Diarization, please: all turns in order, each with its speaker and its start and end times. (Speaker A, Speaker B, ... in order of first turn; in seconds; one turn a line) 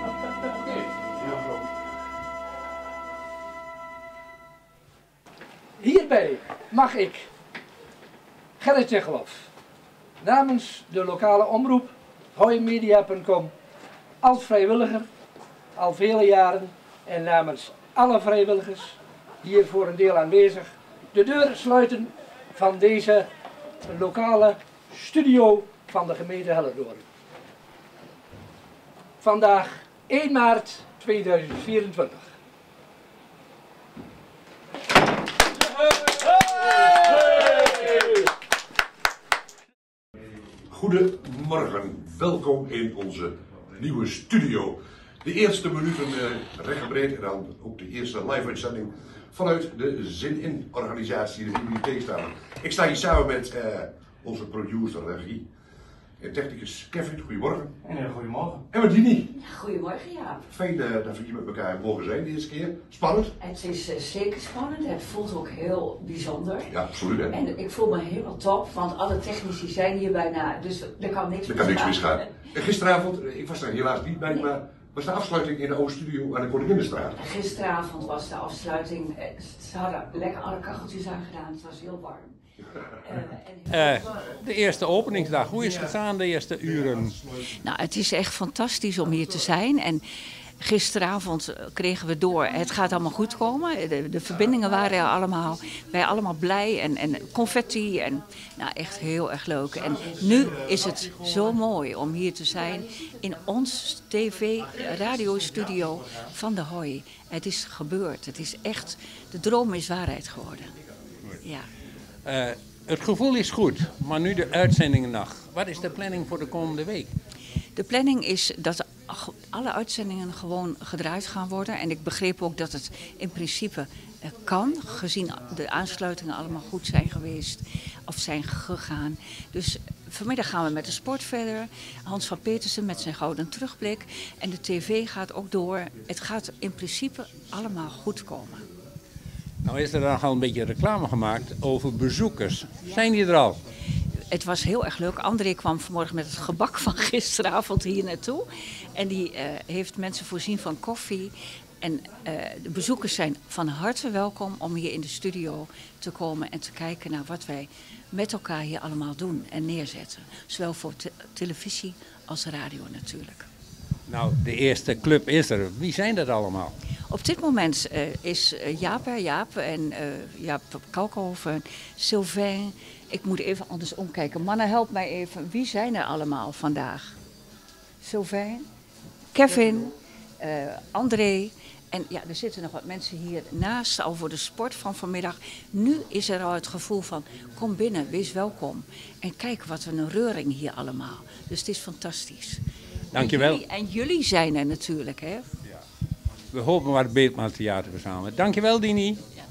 Speaker A: 5.8-7.2
Speaker A: 8.6-9.5
Speaker A: 10.2-13.5
Speaker A: 14.2-15.1
Speaker A: 15.8-23.3
Speaker A: 23.9-27.0
Speaker A: 29.2-32.3
Speaker A: 36.6-37.7
Speaker B: 40.7-55.4
Speaker B: 56.2-57.9
Speaker A: 57.9-58.5
Speaker B: 58.7-59.3
Speaker C: 59.3-60.4
Speaker B: 60.5-63.3
Speaker C: 63.4-66.7
Speaker B: 66.7-67.3
Speaker C: 67.3-72.4
Speaker B: 71.5-77.2
Speaker C: 77.2-82.4
Speaker C: 82.9-84.3
Speaker D: 83.7-87.2
Speaker C: 87.5-90.0
Speaker C: 90.6-110.7
Speaker D: 112.2-117.1
Speaker C: 117.8-138.6
Speaker D: 139.6-143.6
Speaker C: 144.3-163.5
Speaker D: 164.1-166.7
Speaker C: 167.1-177.1
Speaker C: 178.0-178.6
Speaker C: 179.3-195.5
Speaker D: 193.1-193.6
Speaker D: 196.5-199.2